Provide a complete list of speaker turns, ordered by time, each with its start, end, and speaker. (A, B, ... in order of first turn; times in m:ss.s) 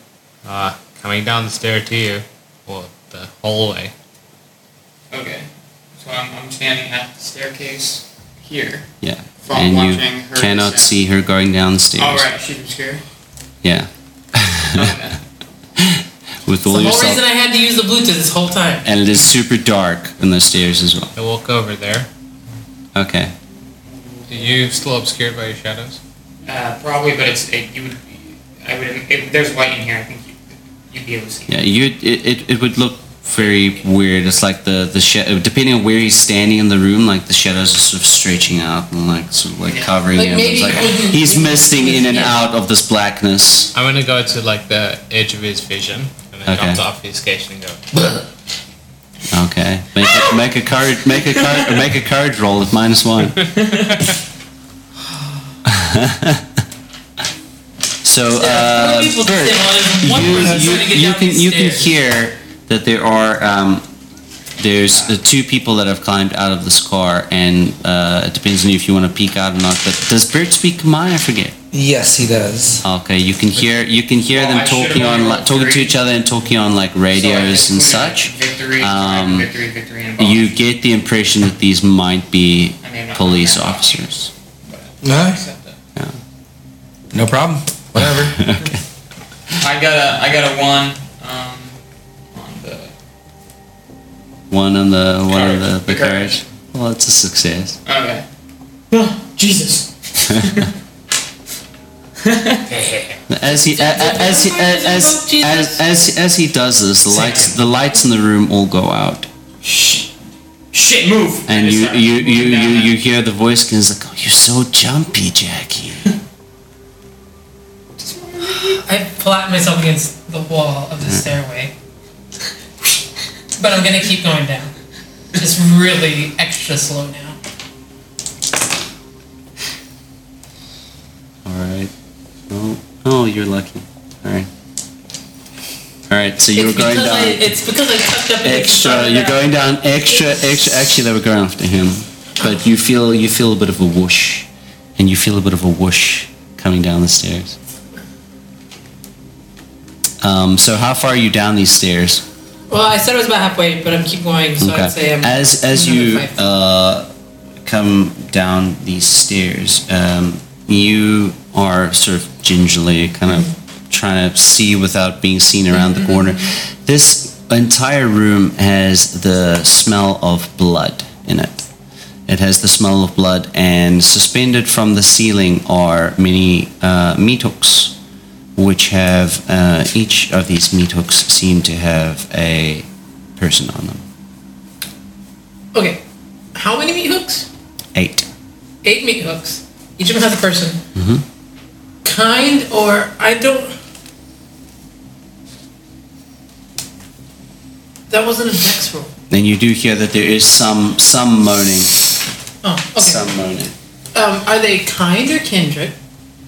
0:00.4-0:03.9 A
0:05.1-0:08.9 B
0:09.0-0:12.2 C
0:09.4-0:10.9 B
0:12.0-0:13.0 B
0:13.6-0:15.0 C
0:14.8-0:15.2 B
0:15.8-0:17.2 C
0:16.7-0:18.8 D
0:18.8-0:21.1 C
0:21.1-0:22.1 A
0:22.9-0:23.3 C
0:24.3-0:26.0 A
0:26.4-0:30.4 B
0:30.9-0:31.5 B
0:31.5-0:43.7 C
0:39.6-0:40.0 B
0:40.1-0:42.4 D
0:43.7-0:48.2 A
0:46.5-0:46.8 C
0:49.3-0:53.6 C
0:55.6-0:56.5 C
0:58.0-1:03.8 C
0:58.3-1:01.9 D
1:04.6-1:11.5 C
1:11.7-1:12.8 E
1:12.8-1:19.5 C
1:14.3-1:16.0 B
1:17.1-1:20.5 B
1:20.2-1:24.3 C
1:22.8-1:24.0 B
1:24.6-1:25.8 B
1:25.0-1:25.4 E
1:27.1-1:28.4 E
1:28.0-1:28.8 C
1:29.6-1:31.8 B
1:32.3-1:32.9 B
1:34.5-1:37.8 C
1:35.3-1:36.4 B
1:37.8-1:38.2 B
1:38.9-1:40.7 B
1:42.2-1:42.6 B
1:42.7-1:43.2 A
1:43.3-1:49.3 C
1:43.4-1:45.8 D
1:47.1-1:47.5 B
1:49.6-1:50.1 B
1:50.7-1:52.9 B
1:51.5-1:56.2 C
1:58.0-1:58.8 B
1:58.4-2:01.7 D
2:03.6-2:04.7 D
2:05.3-2:07.4 D
2:11.4-2:11.9 C
2:12.5-2:14.5 C
2:16.1-2:17.6 C
2:16.5-2:19.5 D
2:18.4-2:27.6 C
2:20.1-2:20.4 D
2:30.2-2:32.2 C
2:32.7-2:36.3 D
2:34.6-2:37.1 C
2:37.6-2:51.6 C
2:43.3-2:43.5 D
2:45.8-2:46.3 D
2:52.3-2:57.9 C
2:58.6-3:04.0 C
3:05.7-3:06.0 D
3:06.5-3:07.5 D
3:07.9-3:08.3 C
3:08.8-3:10.8 D
3:10.9-3:11.2 C
3:12.0-3:13.8 D
3:18.1-3:19.1 D
3:19.3-3:21.9 C
3:22.6-3:23.3 D
3:23.0-3:23.7 C
3:24.1-3:25.9 D